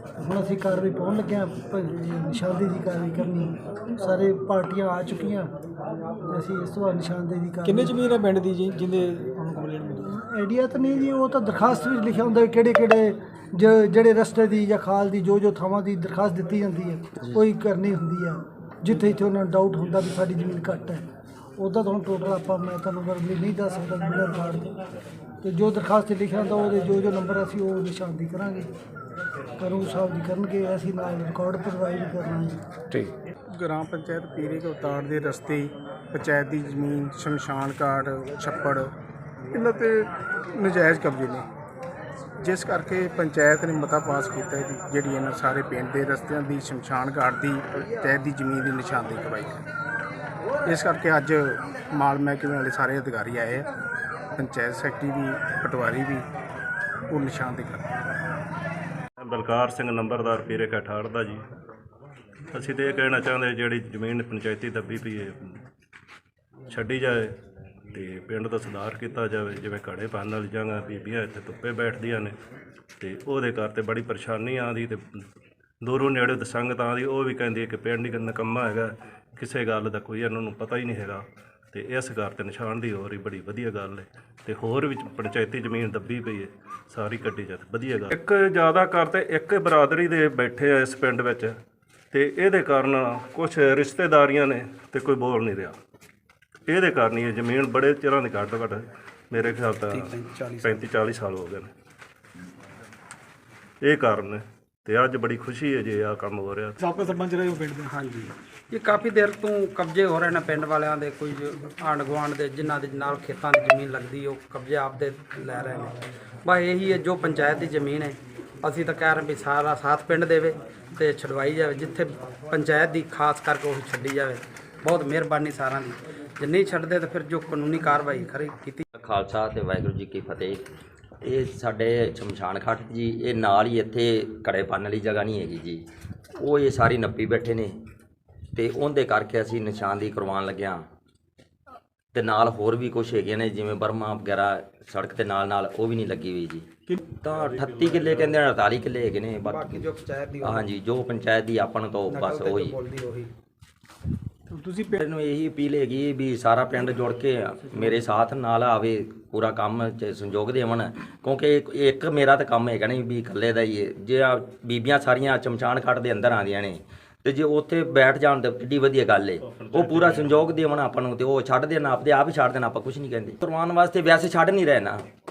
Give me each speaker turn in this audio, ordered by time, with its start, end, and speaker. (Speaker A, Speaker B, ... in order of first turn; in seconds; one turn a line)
Speaker A: 0.2-5.5
Speaker A: 6.3-7.9
Speaker B: 7.7-9.9
Speaker A: 10.0-21.0
Speaker A: 21.6-24.6
Speaker A: 25.4-28.7
Speaker A: 29.6-32.6
Speaker C: 33.5-38.9
Speaker C: 39.5-41.5
Speaker C: 42.4-49.6
Speaker C: 50.6-53.7
Speaker C: 54.4-56.2
Speaker C: 57.1-57.9
Speaker D: 59.2-61.4
Speaker D: 62.5-65.5
Speaker D: 66.7-67.3
Speaker D: 67.9-72.4
Speaker D: 73.0-75.0
Speaker D: 75.8-91.6
Speaker D: 92.1-95.8
Speaker D: 96.7-101.7
Speaker E: 99.4-100.8
Speaker D: 103.8-106.8
Speaker B: 107.0-107.6
Speaker E: 107.8-128.8
Speaker F: 129.0-130.6
Speaker F: 131.2-135.8
Speaker F: 136.4-137.8
Speaker F: 138.6-140.9
Speaker F: 142.1-146.7
Speaker F: 147.2-152.8
Speaker E: 149.4-150.7
Speaker E: 152.1-153.3
Speaker F: 155.0-175.1